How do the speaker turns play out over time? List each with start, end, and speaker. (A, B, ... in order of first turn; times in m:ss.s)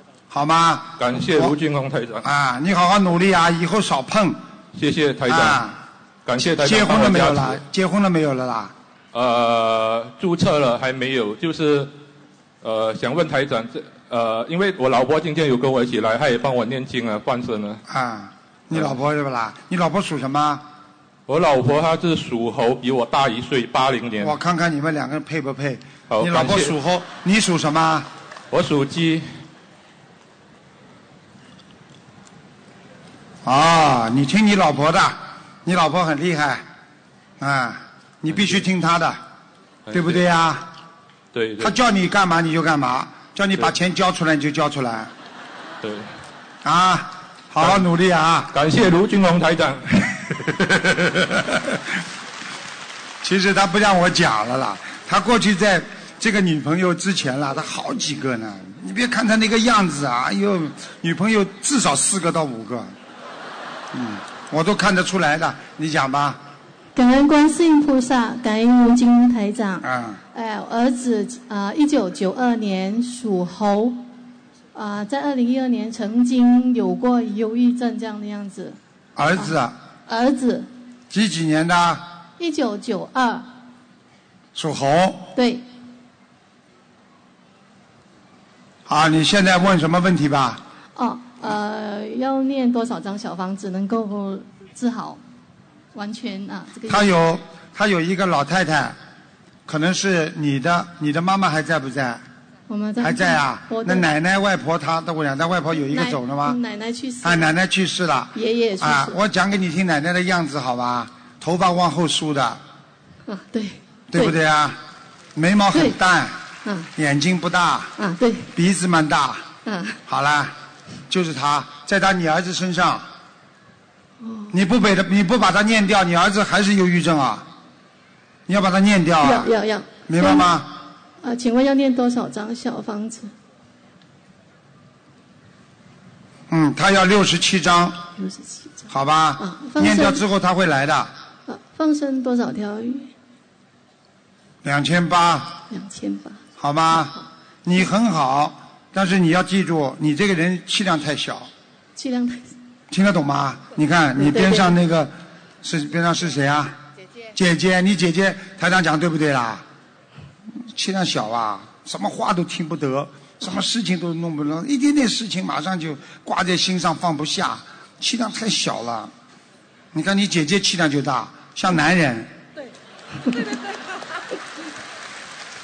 0:00.3-0:01.5 A
0:01.0-0:02.2 B
0:02.2-0:04.4 A
0:04.7-0:05.6 B
0:05.3-0:05.8 A
0:06.2-0:07.6 B
0:06.4-0:08.7 A
0:09.1-0:11.9 B
0:12.6-0:17.8 B
0:17.9-0:20.6 A
0:21.3-0:24.3 B
0:24.2-0:28.1 A
0:26.1-0:26.7 B
0:28.5-0:29.2 B
0:33.4-0:36.6 A
0:37.4-0:39.2 A
0:39.8-0:40.2 B
0:39.9-0:40.7 A
0:41.3-0:41.7 B
0:41.6-0:45.1 A
0:45.8-0:46.1 B
0:46.6-0:48.5 A
0:48.5-0:50.8 B
0:53.2-1:02.9 A
1:03.9-1:06.4 A
1:06.9-1:14.0 C
1:09.8-1:10.2 A
1:14.7-1:18.8 C
1:19.2-1:19.8 A
1:20.1-1:20.7 C
1:21.1-1:22.1 A
1:22.4-1:23.5 C
1:24.5-1:25.3 A
1:25.4-1:25.6 C
1:28.9-1:30.6 A
1:31.0-1:35.2 C
1:35.9-1:37.1 C
1:36.9-1:39.0 A
1:39.6-1:42.2 A
1:42.7-1:44.1 C
1:43.0-1:46.6 A
1:45.9-1:47.5 C
1:47.2-1:52.6 A
1:48.3-1:49.2 C
1:53.3-1:54.3 C
1:54.1-1:54.8 A
1:55.3-1:56.4 A
1:56.6-1:56.9 C
1:57.0-1:57.9 A
1:58.0-1:58.5 C
1:58.5-1:59.5 A
1:59.6-2:00.0 C
2:00.1-2:00.5 A
2:01.1-2:03.1 A
2:04.2-2:04.5 C
2:04.5-2:07.4 A
2:08.5-2:09.5 A
2:09.2-2:10.5 C
2:10.1-2:10.7 A
2:11.2-2:13.3 C
2:16.5-2:18.0 A
2:18.2-2:20.2 C
2:18.9-2:21.1 A
2:21.5-2:23.1 C
2:24.6-2:25.6 A
2:25.7-2:26.4 C
2:26.6-2:31.5 A
2:26.9-2:27.2 C
2:32.0-2:32.5 C
2:32.9-2:36.8 A
2:34.2-2:34.7 C
2:37.3-2:39.6 A
2:40.7-2:49.1 A
2:49.9-2:52.3 A